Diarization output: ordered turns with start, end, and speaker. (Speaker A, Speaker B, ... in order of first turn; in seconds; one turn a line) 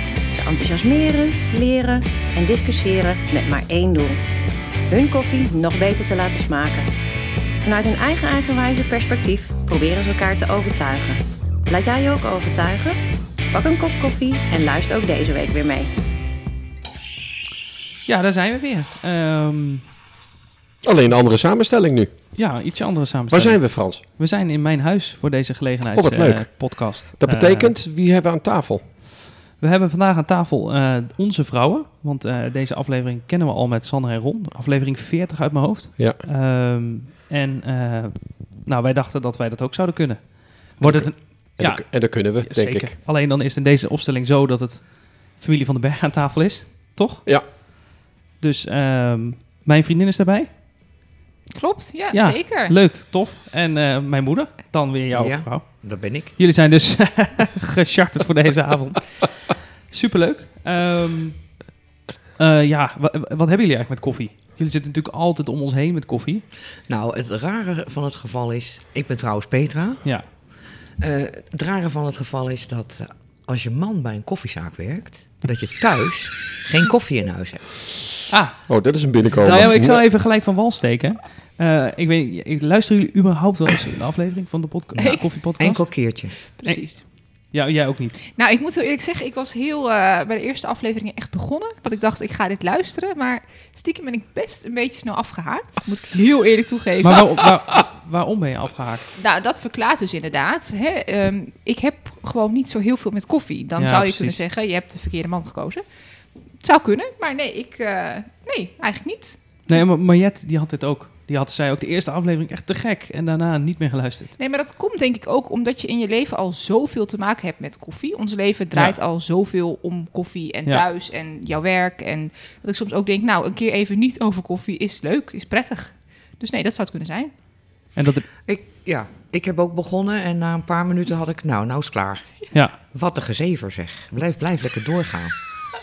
Speaker A: 0.3-4.2
Speaker A: 4.9-6.9
Speaker A: 7.6-13.0
Speaker A: 13.5-15.9
Speaker B: 18.1-19.8
Speaker C: 20.8-22.1
Speaker B: 22.4-27.7
Speaker C: 23.3-24.0
Speaker C: 25.9-28.8
Speaker B: 29.6-47.2
Speaker C: 40.8-42.9
Speaker B: 48.4-50.5
Speaker D: 51.5-52.7
Speaker B: 52.1-55.8
Speaker E: 55.1-56.3
Speaker B: 56.4-59.2
Speaker B: 59.9-61.4
Speaker B: 62.4-66.4
Speaker E: 66.9-70.0
Speaker E: 71.0-77.8
Speaker B: 78.3-78.6
Speaker C: 78.7-80.0
Speaker B: 79.4-85.8
Speaker E: 79.4-79.7
Speaker E: 84.9-86.3
Speaker D: 85.0-85.3
Speaker D: 86.6-87.0
Speaker B: 87.5-88.2
Speaker D: 88.4-97.5
Speaker B: 97.0-99.1
Speaker D: 99.2-105.8
Speaker B: 103.8-104.4
Speaker D: 106.6-109.8
Speaker B: 109.7-114.3
Speaker D: 114.4-127.3
Speaker B: 128.0-128.3
Speaker E: 128.4-132.2
Speaker E: 132.9-135.3